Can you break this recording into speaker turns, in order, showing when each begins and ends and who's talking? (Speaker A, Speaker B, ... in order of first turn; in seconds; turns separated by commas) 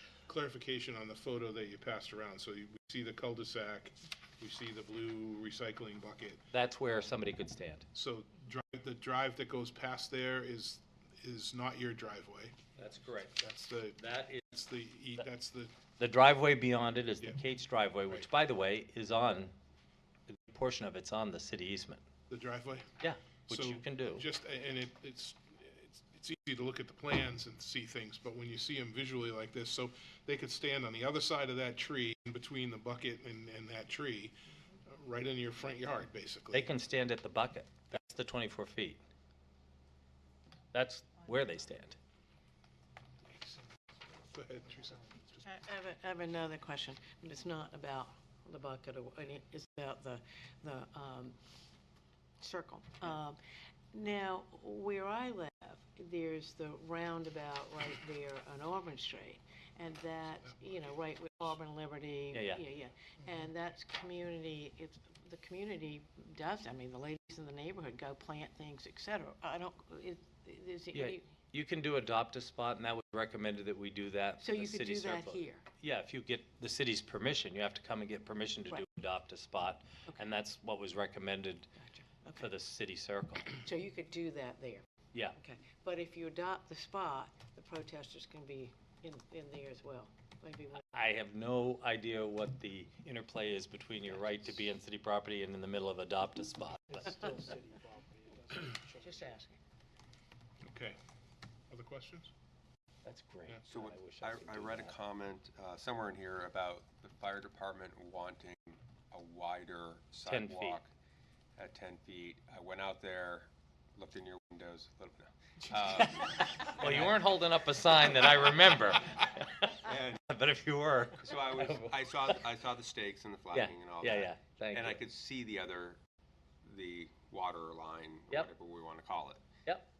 Speaker A: 0.2-6.4, Speaker B: 6.5-7.8, Speaker A: 7.9-12.6, Speaker B: 12.8-13.4, Speaker A: 13.4-15.7, Speaker B: 14.0-14.5, Speaker B: 16.0-19.5, Speaker B: 20.3-22.0, Speaker A: 22.3-22.9, Speaker B: 23.0-24.2, Speaker A: 23.5-36.7, Speaker B: 36.5-39.0, Speaker B: 40.7-42.0, Speaker A: 43.3-45.4, Speaker C: 45.4-51.4, Speaker C: 52.4-53.4, Speaker C: 53.9-71.3, Speaker B: 62.3-62.6, Speaker B: 70.9-81.7, Speaker C: 74.4-75.6, Speaker C: 81.8-82.5, Speaker B: 82.3-83.6, Speaker C: 83.6-90.9, Speaker B: 90.9-97.5, Speaker A: 97.2-97.7, Speaker A: 98.3-99.2, Speaker A: 100.6-101.0, Speaker A: 101.7-102.3, Speaker B: 103.0-104.9, Speaker D: 103.7-110.9, Speaker B: 110.2-110.8, Speaker D: 111.5-117.2, Speaker B: 115.9-122.4, Speaker D: 119.8-120.2, Speaker D: 121.2-126.0, Speaker B: 123.5-125.0, Speaker D: 126.6-129.4